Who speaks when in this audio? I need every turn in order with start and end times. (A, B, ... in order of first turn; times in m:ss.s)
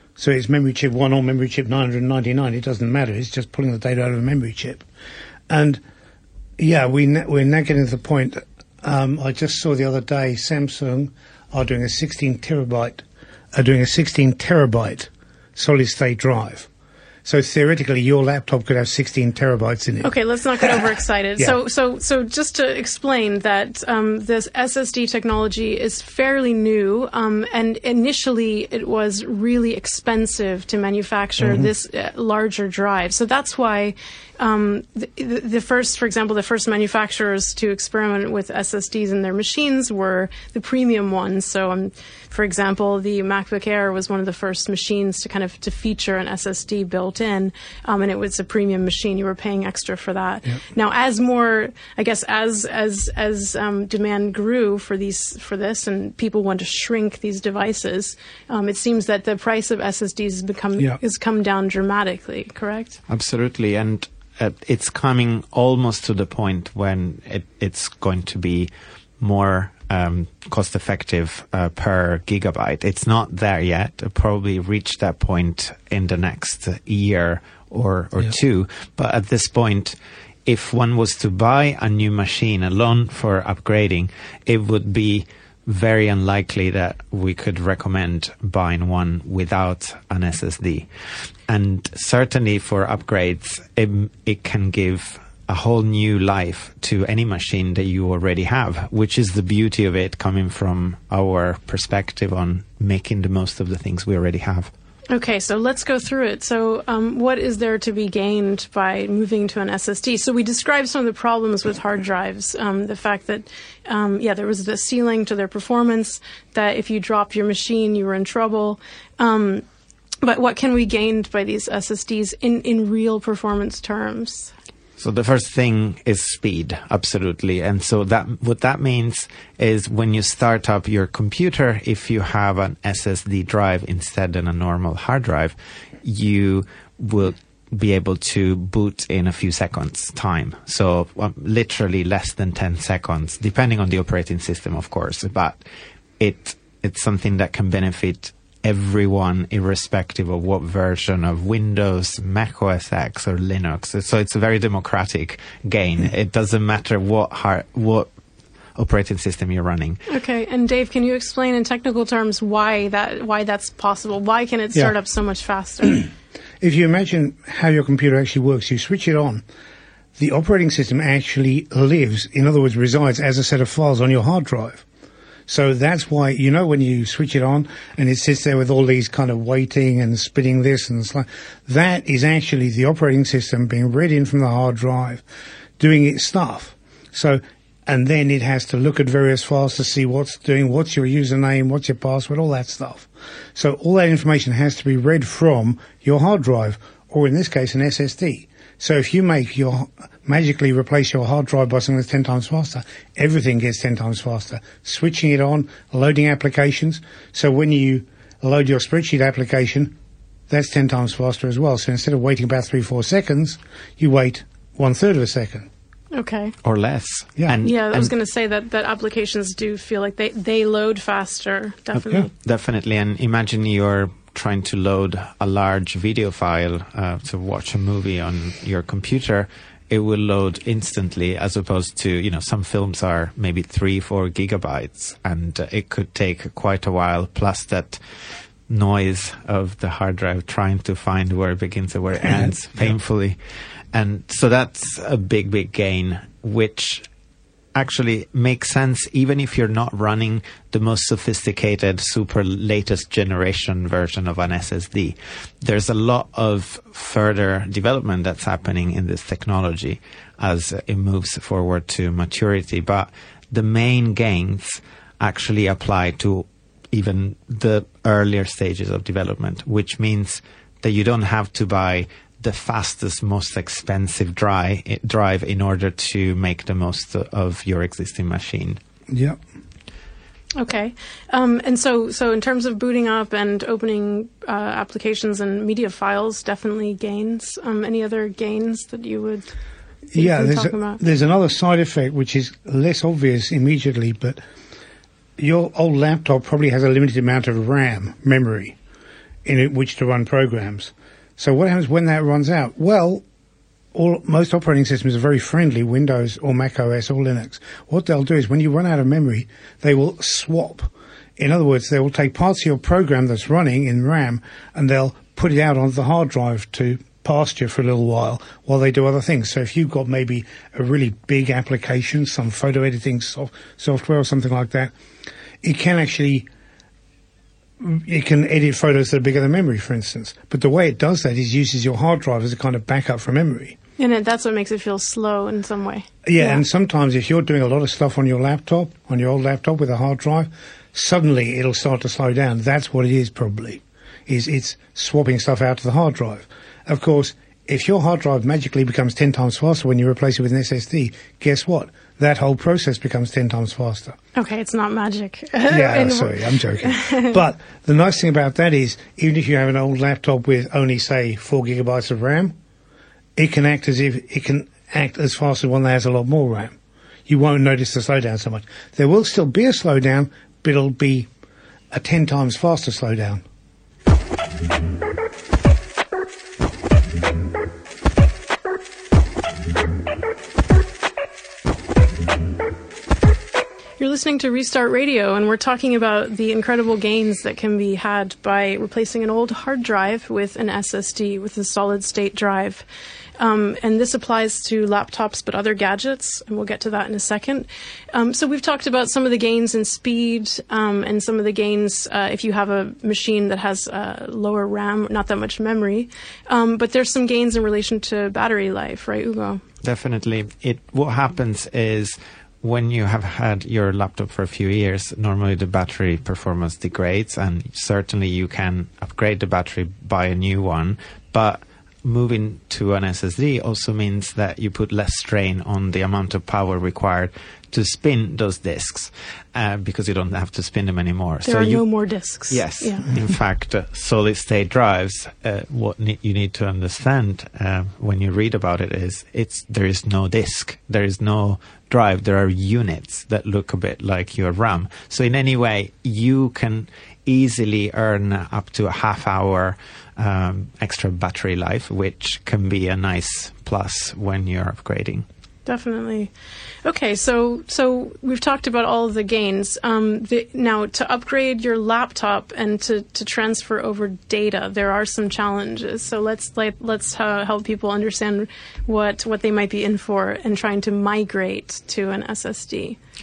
0:00.2-0:04.8 A
0:05.5-0:05.8 A
0:06.6-0:16.7 A
0:17.2-0:20.7 A
0:20.0-1:03.0 B
0:31.4-0:31.7 A
1:03.1-1:30.9 C
1:31.5-1:44.7 C
1:45.1-1:59.6 B
2:00.2-2:04.5 B
2:05.0-2:25.6 C
2:26.2-2:38.1 C
2:38.8-2:40.0 C
2:40.1-2:46.1 B
2:46.6-2:49.4 A
2:50.2-2:54.8 A
2:55.5-3:05.2 A
3:05.8-3:30.0 A
3:30.5-3:35.7 A
3:36.1-3:36.5 B
3:36.6-3:38.1 C
3:37.6-3:42.3 B
3:42.3-3:58.0 C
3:58.7-4:03.4 C
4:02.2-4:02.5 A
4:03.9-4:07.1 C
4:07.8-4:38.8 C
4:39.1-4:39.4 A
4:40.6-4:49.5 B
4:50.1-4:54.4 A
4:50.2-4:51.0 B
4:55.4-4:58.8 A
4:59.4-5:03.2 A
5:03.9-5:24.9 A
5:25.6-5:26.5 A
5:27.8-5:33.8 A
5:34.0-5:36.6 B
5:36.3-5:54.2 A
5:54.4-5:57.4 B
5:55.7-6:02.6 A
6:03.4-6:11.3 A
6:11.9-6:13.4 A
6:24.0-6:32.8 B
6:33.4-6:49.6 B
6:49.8-7:11.8 C
7:11.4-7:13.1 B
7:12.5-7:35.2 C
7:35.7-7:36.3 B
7:36.8-7:53.0 B